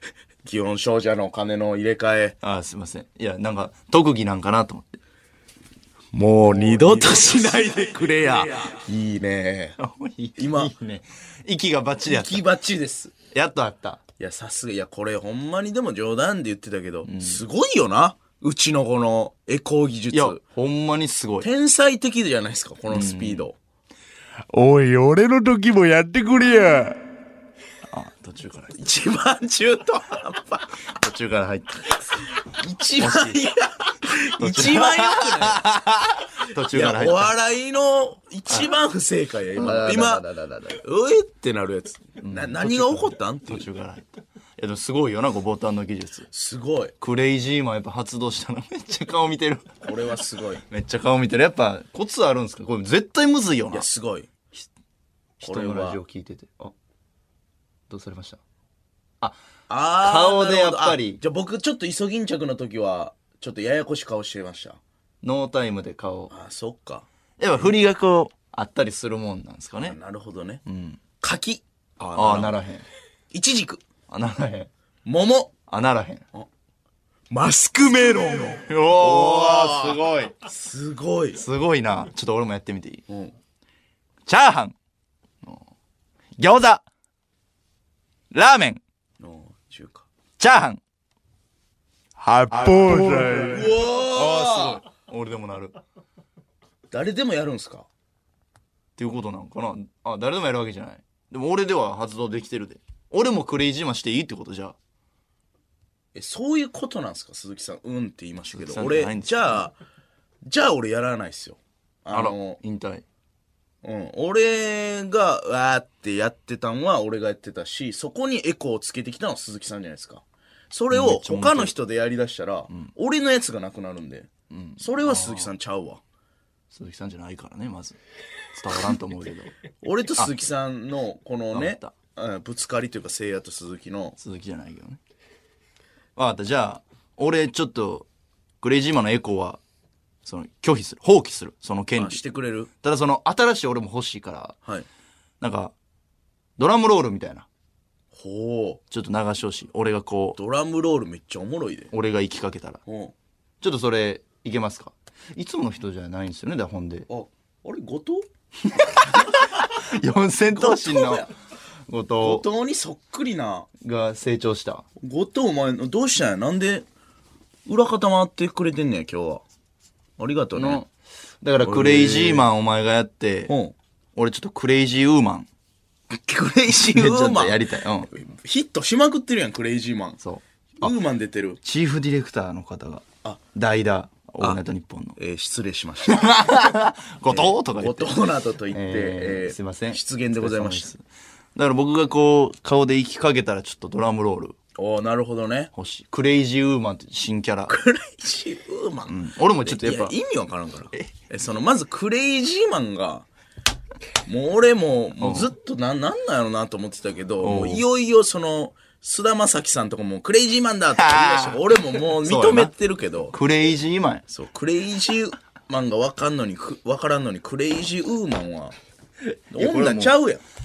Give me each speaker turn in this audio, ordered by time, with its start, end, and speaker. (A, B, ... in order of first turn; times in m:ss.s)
0:00.4-0:02.4 A
0:02.4-0:05.0 B
0:06.1-0:09.8 A
0:06.4-0:07.8 B
0:09.8-0:12.4 B
0:10.4-0:10.7 A
0:12.0-0:13.1 A
0:13.3-0:14.0 B
0:14.2-0:20.4 A
0:17.0-0:17.4 B
0:20.1-0:21.5 B
0:21.4-0:23.6 A
0:22.9-0:23.4 B
0:24.5-0:27.0 C
0:27.9-0:28.7 B
0:28.7-0:30.7 A
0:30.9-0:32.2 B
0:32.4-0:35.6 A
0:33.0-0:33.4 B
0:34.4-0:37.3 B
0:36.7-0:43.6 A
0:39.6-0:40.4 B
0:42.2-0:46.3 B
0:46.3-0:46.9 A
0:47.0-0:49.8 B
0:49.8-0:50.6 A
0:50.7-0:53.9 B
0:53.7-0:54.3 A
0:55.4-0:56.7 B
0:55.4-0:56.0 A
0:57.9-0:58.4 B
0:59.7-1:04.8 A
1:00.0-1:01.2 B
1:05.2-1:06.3 B
1:06.3-1:07.0 A
1:07.4-1:10.0 B
1:09.8-1:10.6 A
1:10.6-1:11.0 B
1:11.2-1:12.6 A
1:12.1-1:12.8 B
1:13.3-1:13.8 A
1:14.1-1:14.7 B
1:15.0-1:15.5 A
1:15.7-1:16.2 B
1:17.3-1:21.4 A
1:18.1-1:20.3 B
1:21.4-1:23.0 B
1:23.1-1:23.3 A
1:24.2-1:24.7 B
1:26.4-1:26.8 B
1:28.3-1:28.8 B
1:29.2-1:30.1 A
1:30.4-1:30.8 B
1:32.2-1:33.7 C
1:32.5-1:35.8 B
1:32.6-1:34.8 A
1:36.9-1:37.9 A
1:39.0-1:44.8 B
1:46.1-1:49.7 A
1:48.5-1:49.7 B
1:50.4-1:52.6 A
1:52.1-1:53.0 B
1:53.8-2:06.0 A
2:00.9-2:01.7 B
2:04.5-2:05.5 B
2:06.7-2:08.0 B
2:08.5-2:09.5 B
2:09.8-2:14.2 A
2:11.5-2:11.9 B
2:14.2-2:15.0 B
2:16.2-2:18.1 B
2:18.6-2:19.6 B
2:20.2-2:22.2 B
2:22.0-2:22.7 A
2:22.8-2:24.6 B
2:25.4-2:25.7 B
2:26.6-2:27.4 B
2:28.1-2:28.8 A
2:28.9-2:30.4 B
2:30.4-2:31.9 A
2:31.9-2:32.8 B
2:32.8-2:33.1 A
2:33.6-2:37.1 B
2:37.1-2:38.2 A
2:38.6-2:41.3 B
2:40.5-2:41.3 A
2:41.9-2:42.4 B
2:42.2-2:43.7 A
2:43.8-2:44.8 B
2:45.0-2:46.8 A
2:47.6-2:49.4 A
2:50.2-2:50.8 A
2:50.5-2:50.9 B
2:51.4-2:53.5 B
2:51.6-2:52.4 A
2:53.5-2:53.7 A
2:54.2-2:55.5 B
2:56.1-3:00.2 A
2:56.7-2:58.1 B
3:00.2-3:00.9 B
3:00.8-3:01.6 A
3:01.6-3:05.2 B
3:05.2-3:06.4 A
3:06.0-3:08.2 B
3:07.3-3:10.9 A
3:08.7-3:11.0 B
3:11.5-3:14.6 B
3:14.8-3:15.7 A
3:15.7-3:17.8 B
3:17.7-3:23.2 A
3:19.1-3:20.1 B
3:24.2-3:33.3 A
3:25.2-3:25.5 B
3:27.4-3:27.8 B
3:30.9-3:32.7 B
3:33.3-3:34.2 B
3:34.3-3:38.7 A
3:39.5-3:40.1 B
3:39.5-3:40.4 A